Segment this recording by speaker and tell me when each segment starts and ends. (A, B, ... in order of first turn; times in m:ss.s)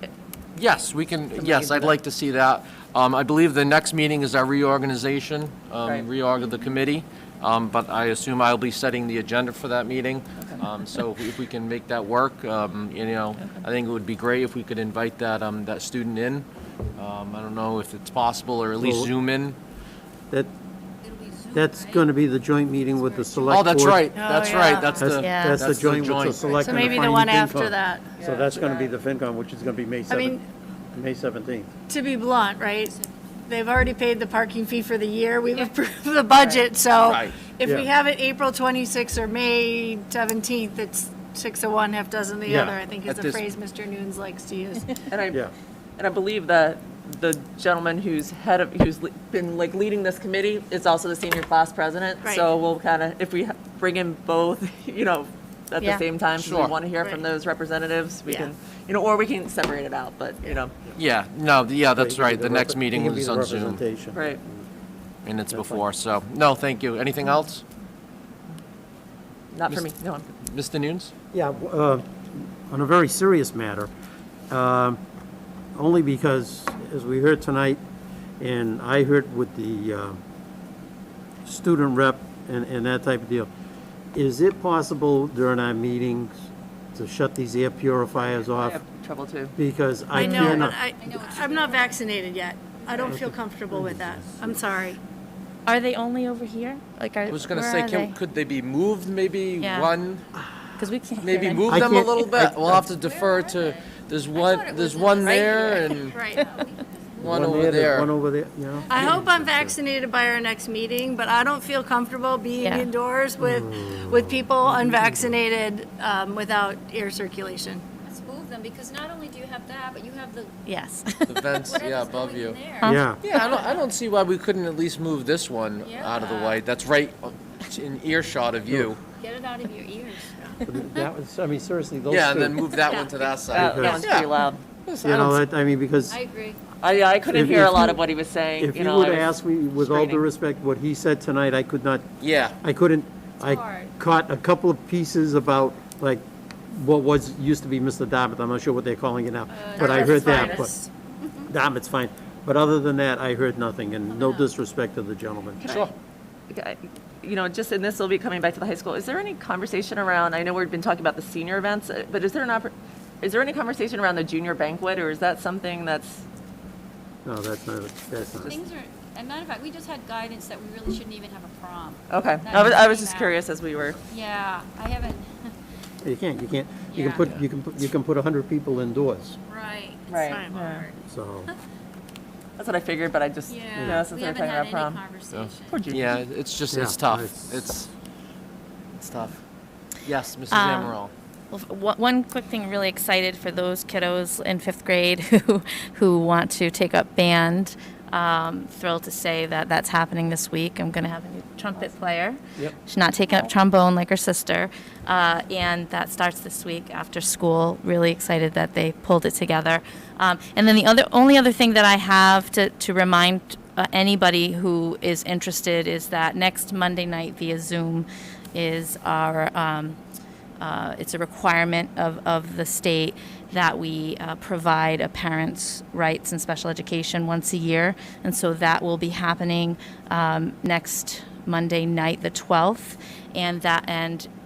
0:00.5-0:19.6 A
0:01.4-0:01.9 B
0:18.8-0:19.1 C
0:21.0-0:22.1 D
0:21.5-0:24.1 C
0:22.9-0:24.0 D
0:23.5-0:27.1 A
0:24.1-0:25.0 E
0:24.7-0:25.0 D
0:25.0-0:30.4 C
0:25.2-0:25.6 F
0:26.6-0:28.1 E
0:30.1-0:30.4 E
0:30.9-0:31.7 C
0:31.9-0:45.0 E
0:37.0-0:37.5 A
0:42.5-0:42.8 C
0:43.0-0:43.4 A
0:45.1-0:45.4 B
0:46.0-1:00.7 B
0:52.2-0:52.5 E
0:56.4-0:56.7 A
1:01.0-1:03.8 A
1:02.0-1:04.6 C
1:04.1-1:04.4 B
1:05.2-1:07.6 A
1:05.5-1:05.8 C
1:09.5-1:10.3 B
1:10.4-1:11.1 A
1:11.3-1:13.9 C
1:14.5-1:15.0 C
1:15.7-1:17.8 C
1:18.4-1:20.2 C
1:21.4-1:23.5 C
1:24.1-1:26.4 C
1:26.9-1:28.8 C
1:28.6-1:29.5 B
1:29.6-1:30.7 C
1:30.1-1:35.0 E
1:30.2-1:30.5 F
1:30.4-1:32.0 D
1:32.8-1:33.1 D
1:33.1-1:34.6 C
1:35.6-1:38.2 F
1:37.3-1:40.2 A
1:39.6-1:39.9 F
1:40.8-1:41.8 F
1:41.2-1:46.2 A
1:41.7-1:42.8 C
1:42.9-1:47.4 D
1:46.1-1:46.4 E
1:47.2-1:49.7 C
1:47.2-1:48.1 A
1:48.9-1:57.8 E
1:52.6-1:52.8 F
1:53.4-1:55.3 C
1:58.1-2:00.5 D
2:00.7-2:01.6 F
2:01.3-2:02.6 A
2:01.6-2:03.8 D
2:02.7-2:03.0 F
2:02.8-2:03.2 C
2:03.2-2:09.0 A
2:05.8-2:06.6 D
2:09.2-2:10.3 D
2:10.6-2:12.7 C
2:12.1-2:14.3 A
2:12.8-2:13.2 D
2:13.5-2:14.6 B
2:13.5-2:14.1 C
2:14.9-2:15.4 A
2:15.0-2:16.2 C
2:16.1-2:16.6 D
2:16.8-2:20.2 B
2:17.3-2:18.0 C
2:18.6-2:22.1 C
2:22.2-2:22.6 A
2:22.6-2:30.7 C
2:23.4-2:23.9 D
2:29.5-2:30.7 D
2:29.7-2:30.9 E
2:31.5-2:35.6 C
2:34.1-2:34.5 D
2:35.6-2:35.9 B
2:35.6-2:35.9 A
2:36.5-2:46.2 B
2:47.2-2:48.6 C
2:48.4-2:53.4 D
2:52.1-2:54.0 B
2:54.1-2:55.3 D
2:56.0-2:59.4 C
2:56.9-2:57.3 D
2:59.5-3:01.0 D
3:00.1-3:00.8 B
3:00.3-3:00.6 E
3:01.0-3:01.5 C
3:02.6-3:05.0 B
3:03.5-3:06.0 D
3:03.8-3:04.0 C
3:05.3-3:07.9 A
3:05.7-3:06.1 B
3:06.7-3:07.6 C
3:08.9-3:09.4 A
3:10.0-3:11.1 A
3:10.5-3:11.0 F
3:11.5-3:40.0 F
3:40.6-3:54.3 F